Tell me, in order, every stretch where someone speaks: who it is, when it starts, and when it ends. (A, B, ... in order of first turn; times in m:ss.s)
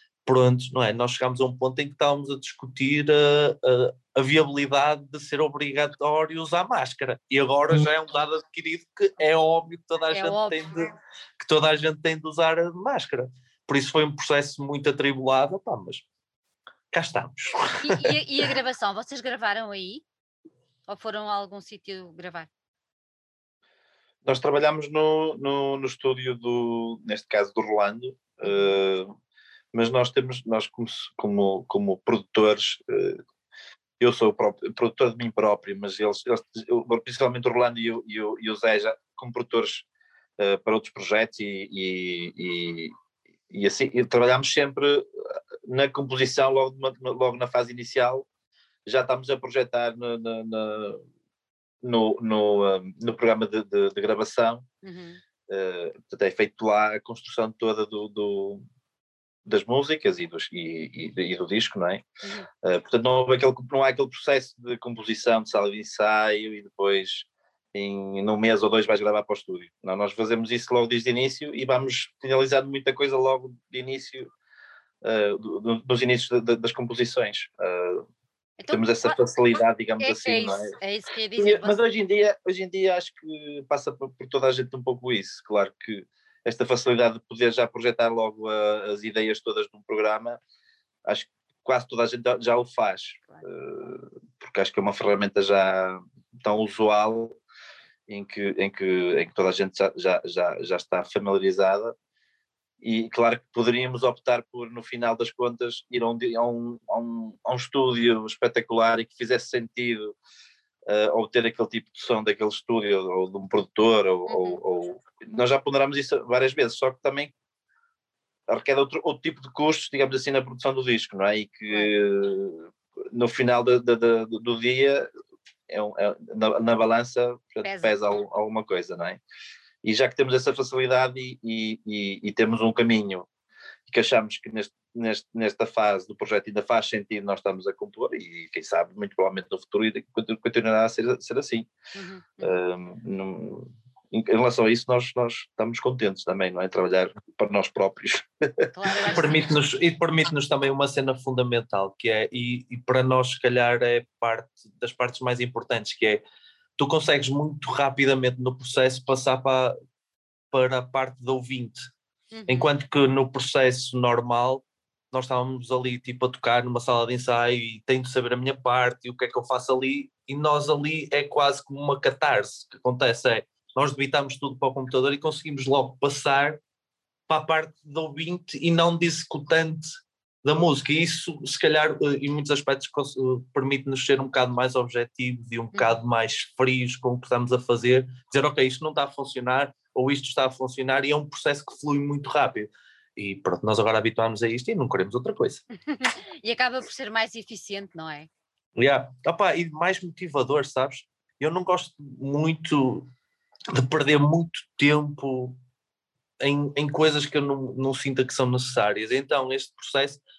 0:00.3-0:16.0 A
0:10.1-0:10.6 B
0:16.9-0:18.2 A
0:17.8-0:20.0 B
0:20.9-0:22.5 B
0:24.2-0:29.1 C
0:28.4-0:28.8 B
0:29.7-0:33.2 C
0:34.0-0:39.8 C
0:40.4-0:42.9 C
0:43.5-0:48.3 C
0:48.9-0:51.0 C
0:51.8-0:54.6 C
0:54.8-0:55.2 B
0:55.5-0:58.6 C
0:59.5-1:02.0 C
1:02.6-1:14.3 C
1:15.0-1:18.0 C
1:18.6-1:19.2 B
1:18.7-1:20.8 C
1:20.0-1:21.8 B
1:21.4-1:30.4 C
1:31.0-1:37.4 C
1:38.1-1:42.0 C
1:42.8-1:50.2 C
1:50.9-1:57.3 C
1:54.3-1:54.6 B
1:58.5-2:05.1 C
2:05.7-2:09.2 C
2:07.6-2:07.9 B
2:09.8-2:13.3 C
2:13.9-2:21.7 C
2:21.9-2:22.6 B
2:22.4-2:28.7 C
2:28.7-2:29.4 B
2:29.1-2:36.2 A
2:36.8-2:39.8 A
2:40.5-2:41.9 A
2:42.3-2:42.7 B
2:42.5-2:56.6 A
2:57.3-2:59.9 A
3:00.4-3:15.6 A
3:15.9-3:18.3 B
3:18.8-3:23.1 A
3:23.7-3:25.6 A
3:26.4-3:30.2 A